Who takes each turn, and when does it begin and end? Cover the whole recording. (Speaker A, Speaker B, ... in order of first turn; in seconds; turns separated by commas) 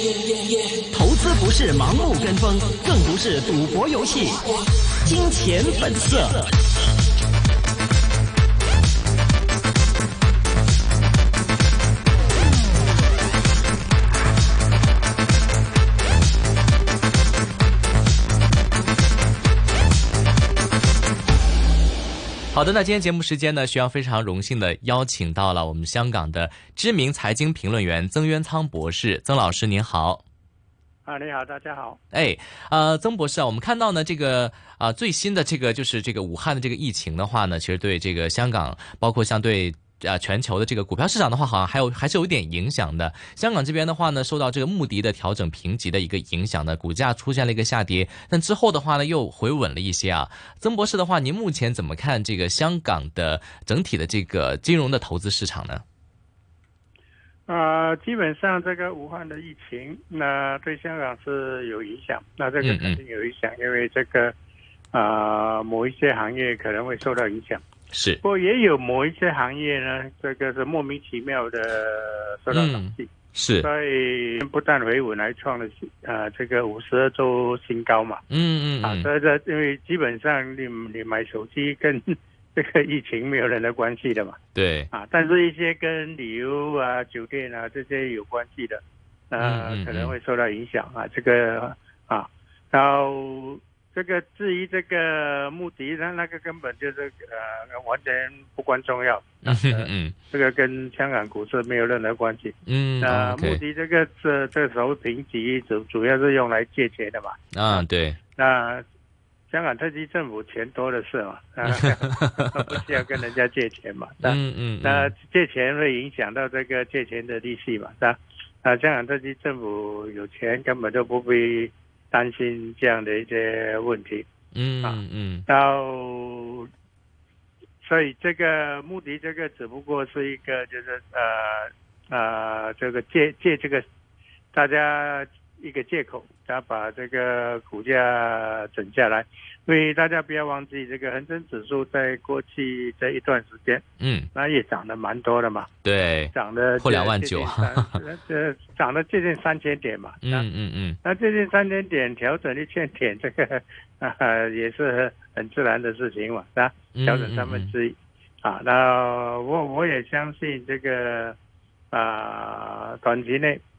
Speaker A: 0.9-4.5, Speaker A: 5.0-6.5, Speaker B: 22.5-30.2, Speaker C: 31.0-32.0, Speaker B: 32.1-55.8, Speaker C: 57.5-64.3, Speaker B: 62.6-63.0, Speaker C: 64.9-67.6, Speaker B: 67.9-68.2, Speaker C: 68.2-73.1, Speaker B: 72.5-73.7, Speaker C: 73.6-78.2, Speaker B: 78.3-79.1, Speaker C: 78.8-84.4, Speaker B: 84.5-84.9, Speaker C: 84.9-107.8, Speaker B: 89.4-90.1, Speaker B: 99.4-100.1, Speaker B: 102.7-103.6, Speaker B: 107.5-108.2, Speaker C: 108.3-108.8, Speaker C: 109.5-124.3, Speaker B: 111.6-112.8, Speaker B: 114.2-115.1, Speaker B: 124.5-125.5, Speaker C: 124.8-126.7, Speaker C: 127.8-133.8, Speaker C: 134.5-145.7, Speaker B: 144.0-144.3, Speaker B: 145.8-148.0, Speaker C: 146.3-150.5, Speaker B: 150.2-151.0, Speaker C: 151.0-161.3, Speaker B: 156.9-157.7, Speaker C: 161.9-163.6